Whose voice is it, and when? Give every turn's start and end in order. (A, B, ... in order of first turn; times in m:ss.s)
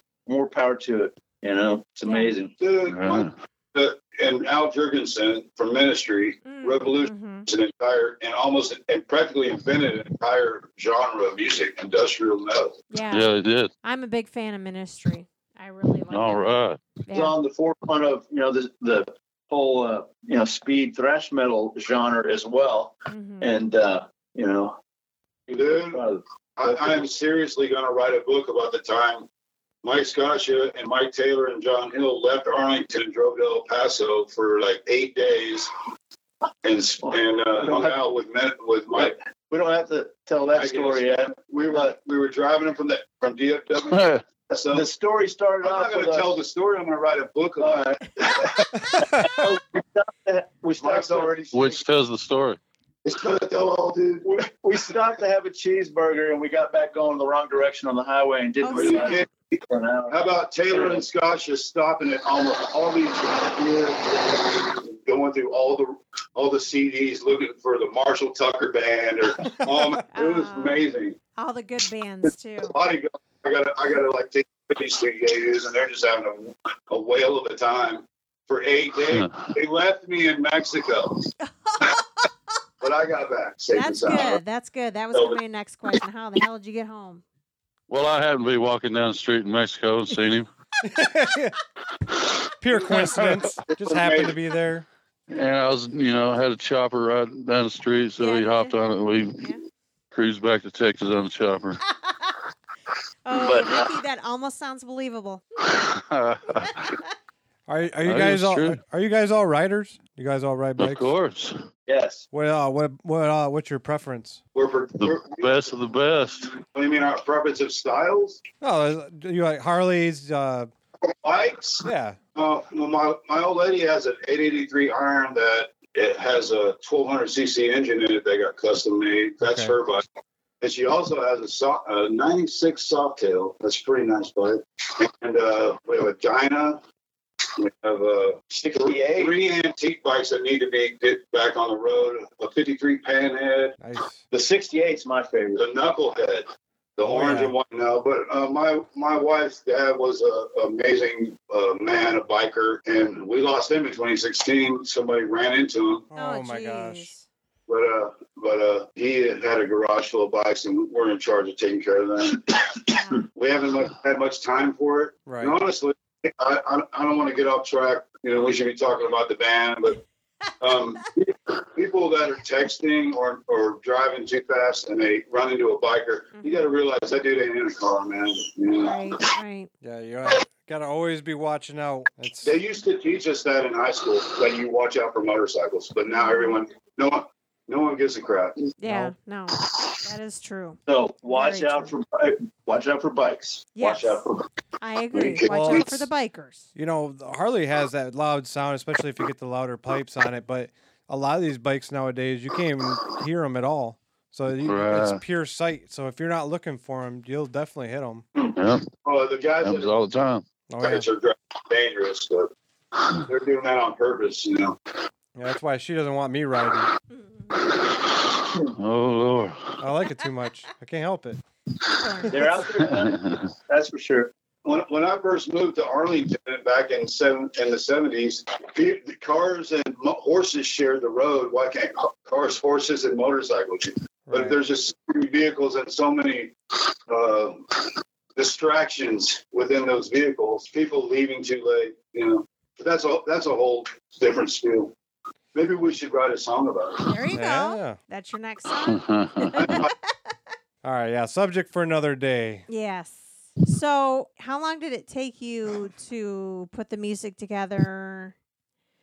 0:00.3-0:02.6 A
0:02.0-0:02.3 B
0:02.6-0:12.8 C
0:02.9-0:03.3 D
0:06.4-0:07.5 B
0:12.9-0:13.3 B
0:13.1-0:13.7 D
0:13.8-0:16.4 B
0:16.1-0:16.8 D
0:17.1-0:17.4 B
0:17.1-0:24.8 A
0:23.1-0:23.5 B
0:25.5-0:27.0 A
0:25.5-0:26.0 C
0:26.6-0:29.3 C
0:29.8-0:35.7 C
0:36.6-0:39.2 C
0:37.1-0:38.0 A
0:38.9-0:41.9 A
0:40.6-0:44.9 C
0:43.9-0:44.2 D
0:44.7-0:46.3 A
0:45.6-0:48.8 C
0:47.6-0:51.7 A
0:50.8-0:51.8 C
0:51.5-0:52.6 D
0:53.0-0:54.4 C
0:54.2-1:01.0 A
0:58.6-0:59.2 B
0:58.7-0:59.4 C
1:00.1-1:11.2 C
1:10.1-1:10.8 B
1:11.4-1:12.8 B
1:12.6-1:21.3 C
1:19.1-1:19.5 D
1:21.6-1:22.0 B
1:22.8-1:24.4 C
1:23.7-1:27.2 B
1:27.9-1:30.5 D
1:30.8-1:31.6 E
1:32.6-1:34.9 E
1:32.9-1:34.4 C
1:35.3-1:39.4 D
1:38.2-1:38.8 B
1:40.1-1:41.8 D
1:42.0-1:42.3 B
1:43.2-1:45.4 B
1:43.3-1:43.8 A
1:45.6-1:47.0 D
1:47.7-1:51.1 E
1:48.0-1:48.8 D
1:50.8-1:51.6 D
1:51.9-1:52.3 A
1:52.3-1:54.4 E
1:54.6-1:55.7 C
1:55.0-1:56.6 D
1:56.6-1:58.4 C
1:58.6-2:00.7 E
2:01.2-2:10.0 C
2:01.8-2:02.2 E
2:09.4-2:09.8 E
2:10.6-2:16.8 C
2:17.6-2:23.8 C
2:18.6-2:19.3 A
2:23.8-2:24.2 E
2:24.3-2:25.6 A
2:25.6-2:36.1 C
2:27.0-2:27.5 E
2:36.1-2:37.1 E
2:36.2-2:37.3 B
2:37.7-2:50.0 C
2:45.3-2:45.6 E
2:50.6-2:59.3 C
2:56.4-2:56.6 B
2:58.8-2:59.7 B
2:59.8-3:02.6 E
3:02.4-3:08.7 C
3:06.1-3:06.6 B
3:08.8-3:11.9 B
3:08.8-3:09.2 E
3:10.9-3:14.2 A
3:13.8-3:14.2 B
3:13.8-3:14.3 C
3:14.8-3:16.7 B
3:15.1-3:16.0 C
3:15.5-3:15.9 E
3:16.8-3:28.2 E
3:24.6-3:25.2 D
3:28.4-3:29.9 C
3:28.6-3:28.9 D
3:29.6-3:30.4 D
3:30.7-3:31.1 E
3:30.8-3:32.5 C
3:33.2-3:34.8 C
3:35.4-3:36.9 E
3:37.1-3:37.8 B
3:37.8-3:39.8 D
3:39.8-3:41.4 E
3:42.0-3:42.7 B
3:42.3-3:44.3 A
3:42.7-3:43.4 D
3:44.6-3:56.5 C
3:54.3-3:54.6 E
3:57.1-3:57.7 C
3:58.4-4:04.9 C
4:05.5-4:07.1 C
4:07.0-4:09.9 B
4:07.3-4:08.0 E
4:08.9-4:09.5 D
4:09.6-4:09.9 C
4:10.8-4:12.7 E
4:12.7-4:18.4 B